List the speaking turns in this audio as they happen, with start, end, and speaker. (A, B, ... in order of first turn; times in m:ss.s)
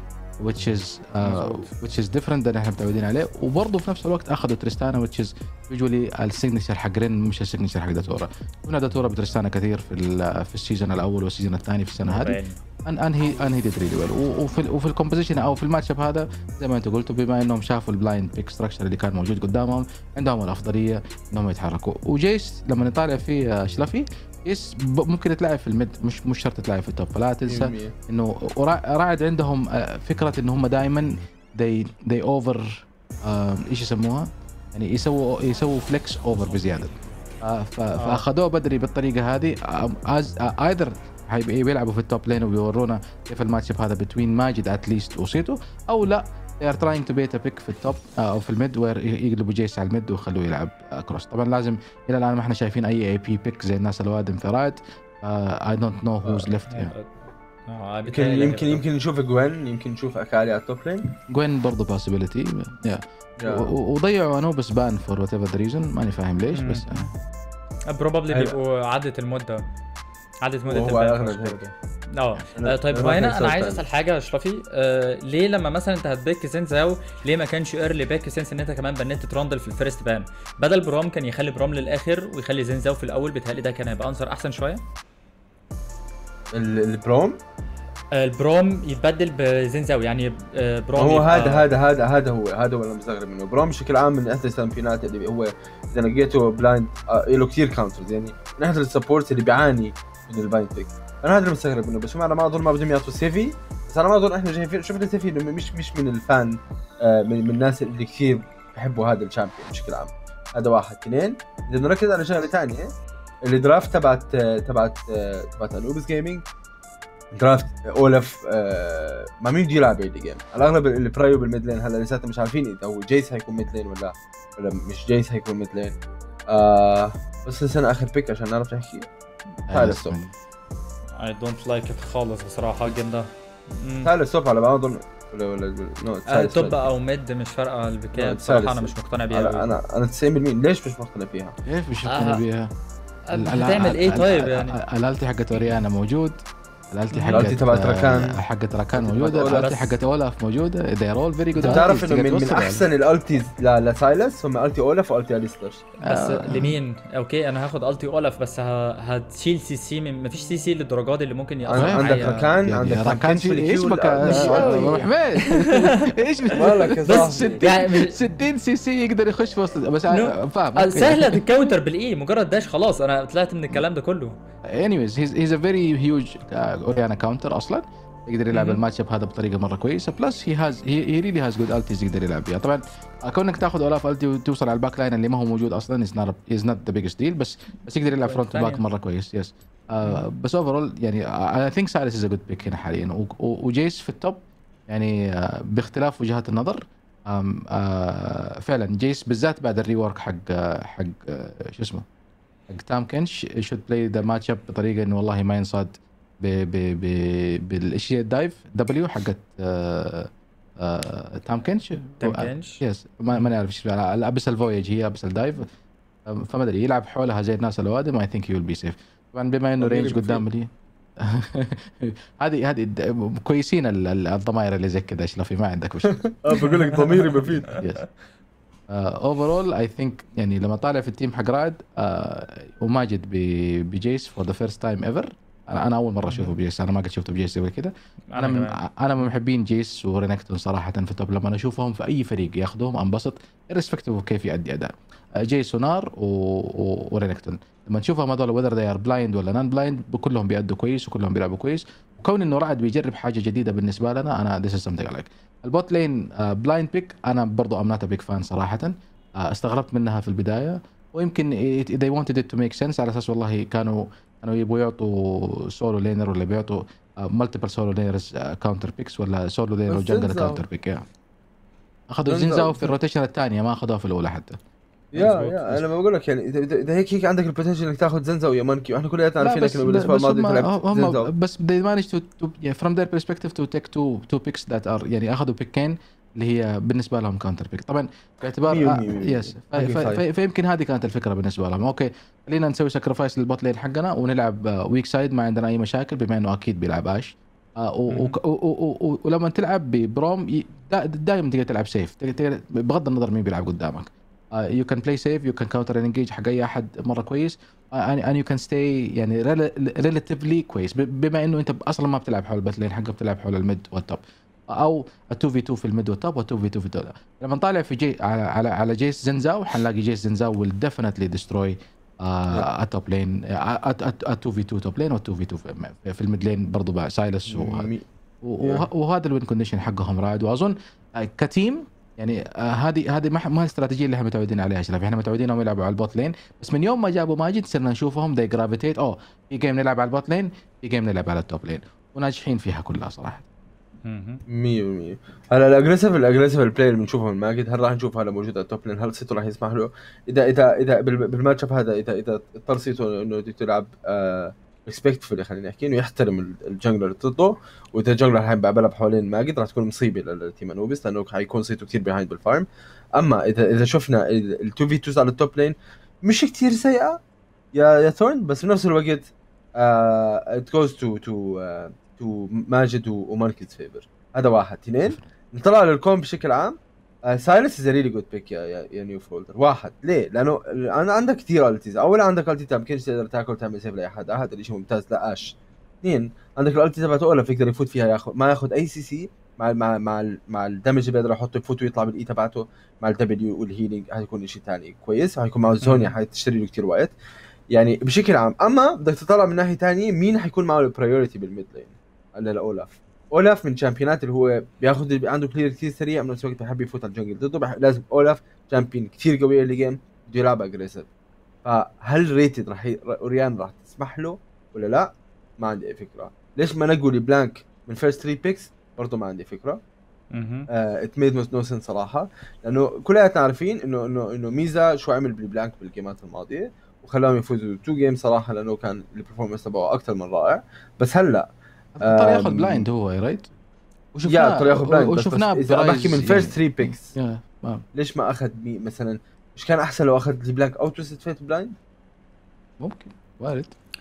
0:00.4-0:56.9 A
0:12.1-0:12.6 B
0:27.4-0:27.9 C
0:38.0-0:38.2 B
0:56.7-0:58.8 B
0:58.1-1:01.1 C
1:01.3-1:07.0 A
1:03.4-1:03.7 C
1:06.5-1:07.1 B
1:07.9-1:09.6 B
1:10.4-1:24.8 B
1:10.7-1:11.7 C
1:12.5-1:13.8 C
1:26.5-1:27.4 C
1:28.1-1:31.7 B
1:31.0-1:56.4 C
1:57.3-2:06.0 C
2:06.5-2:09.1 C
2:09.7-2:10.2 C
2:09.7-2:10.3 A
2:11.2-2:14.1 B
2:14.0-2:16.8 C
2:16.3-2:19.6 B
2:18.1-2:21.6 C
2:21.6-2:22.7 A
2:22.0-2:22.4 B
2:23.3-2:24.8 B
2:23.3-2:32.9 A
2:27.1-2:27.5 B
2:27.3-2:28.4 C
2:28.9-2:29.7 C
2:29.5-2:29.9 B
2:31.6-2:35.8 C
2:36.0-2:42.5 B
2:36.0-2:36.7 A
2:41.6-2:45.1 C
2:41.7-2:51.4 A
2:44.2-2:45.8 B
2:46.5-2:47.8 C
2:47.0-2:48.2 B
2:50.1-2:54.4 B
2:54.7-3:22.0 A
2:58.5-2:58.8 B
3:08.2-3:08.8 B
3:22.7-3:35.7 A
3:32.2-3:32.8 B
3:36.3-3:46.6 A
3:39.8-3:40.4 C
3:46.4-3:47.8 C
3:47.7-3:48.0 A
3:48.9-4:31.0 A
3:58.3-3:58.8 B
4:29.9-4:30.6 C
4:32.1-4:34.6 A
4:32.3-4:32.9 C
4:35.1-4:41.3 C
4:35.2-4:35.6 B
4:39.4-5:27.9 A
4:48.6-4:50.2 C
4:58.1-4:58.4 B
5:27.5-5:28.0 C
5:28.4-5:43.4 A
5:44.0-5:44.4 B
5:44.5-6:07.2 C
6:07.7-6:37.1 C
6:35.8-6:36.1 B
6:37.7-6:51.1 C
6:51.6-6:59.8 C
7:00.3-7:00.7 B
7:00.7-7:12.8 C
7:12.0-7:13.5 A
7:14.1-7:17.8 A
7:14.2-7:17.1 C
7:17.9-7:21.7 C
7:22.8-7:23.8 A